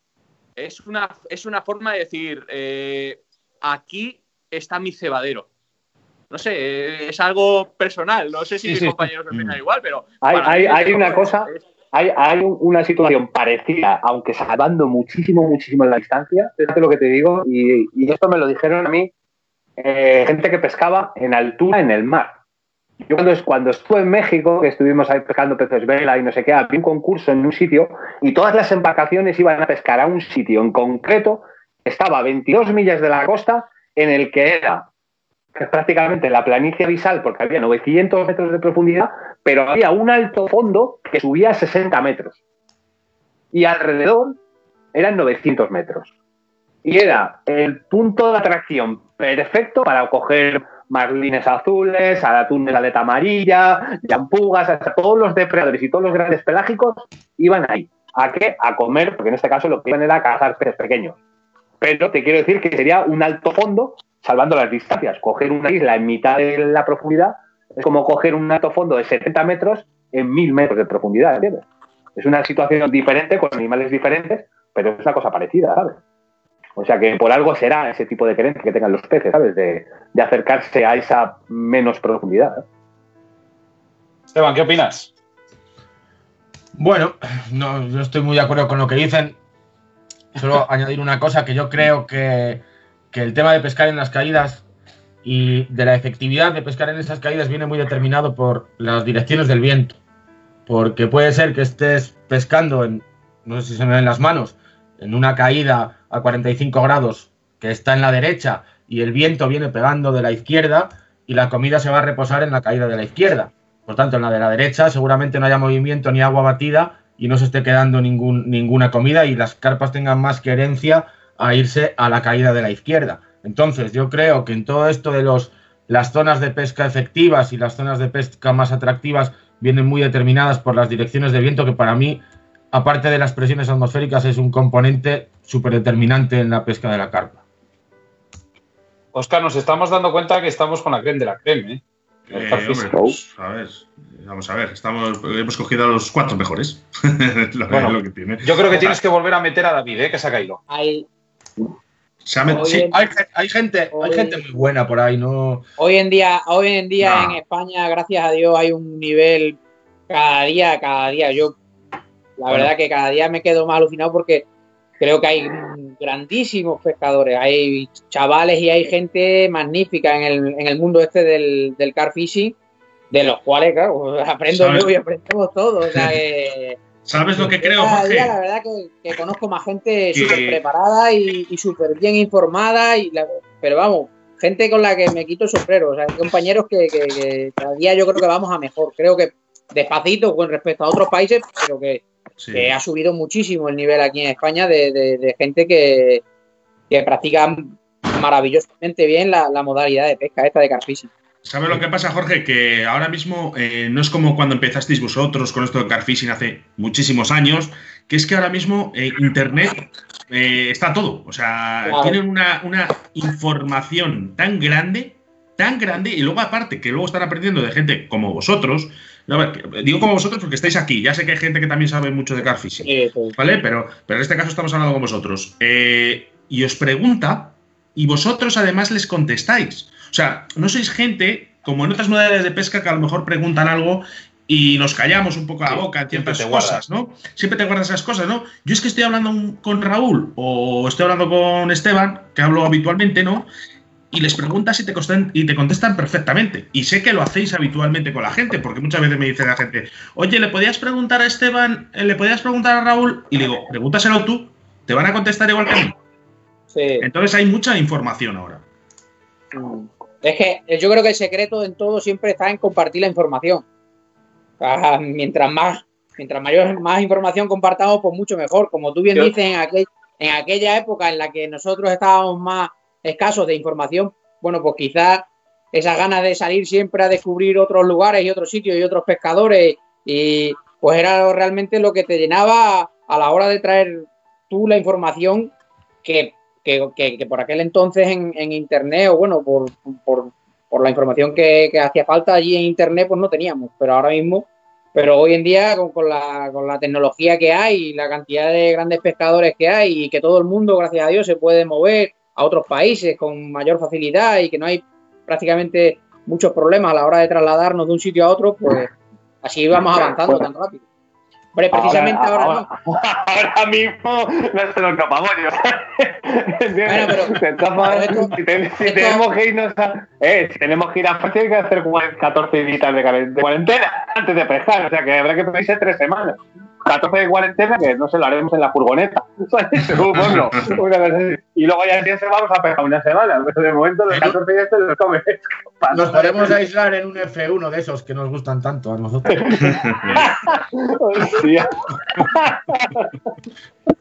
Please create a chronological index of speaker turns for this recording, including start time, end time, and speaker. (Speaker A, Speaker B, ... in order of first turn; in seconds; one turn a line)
Speaker A: 0.6-5.5
Speaker A: 6.3-11.6
Speaker B: 8.6-9.1
Speaker C: 9.3-9.6
Speaker D: 10.2-19.1
Speaker D: 19.8-22.4
Speaker D: 23.1-34.9
Speaker D: 35.5-42.4
Speaker D: 43.5-44.4
Speaker D: 44.9-46.1
Speaker D: 46.8-61.2
Speaker D: 61.8-71.6
Speaker D: 72.2-76.0
Speaker D: 76.8-82.6
Speaker B: 84.3-85.1
Speaker E: 86.8-89.4
Speaker E: 90.4-94.6
Speaker E: 95.2-100.0
Speaker E: 100.7-137.4
Speaker B: 139.1-143.1
Speaker C: 142.3-149.0
Speaker B: 147.7-150.6
Speaker F: 150.7-151.1
Speaker C: 152.2-152.9
Speaker F: 152.5-152.9
Speaker E: 152.9-155.6
Speaker F: 153.9-154.4
Speaker F: 155.8-159.6
Speaker C: 157.0-157.4
Speaker F: 160.1-161.6
Speaker F: 162.4-164.5
Speaker F: 165.0-172.6
Speaker F: 173.1-176.8
Speaker C: 174.5-174.9
Speaker C: 177.1-178.3
Speaker F: 177.3-196.2
Speaker C: 180.1-180.6
Speaker C: 192.4-192.8
Speaker F: 196.9-201.1
Speaker C: 201.4-243.5
Speaker F: 211.8-212.2
Speaker F: 222.8-223.3
Speaker B: 235.7-236.8
Speaker C: 244.1-256.0
Speaker F: 256.7-257.1
Speaker C: 257.0-258.6
Speaker F: 259.5-263.6
Speaker F: 264.6-285.5
Speaker F: 286.0-308.9
Speaker F: 309.4-310.8
Speaker F: 311.5-312.7
Speaker D: 311.7-336.6
Speaker F: 316.9-319.2
Speaker C: 330.1-330.5
Speaker C: 334.1-334.4
Speaker E: 335.9-339.8
Speaker D: 339.3-339.6
Speaker C: 339.5-340.3
Speaker D: 340.1-343.1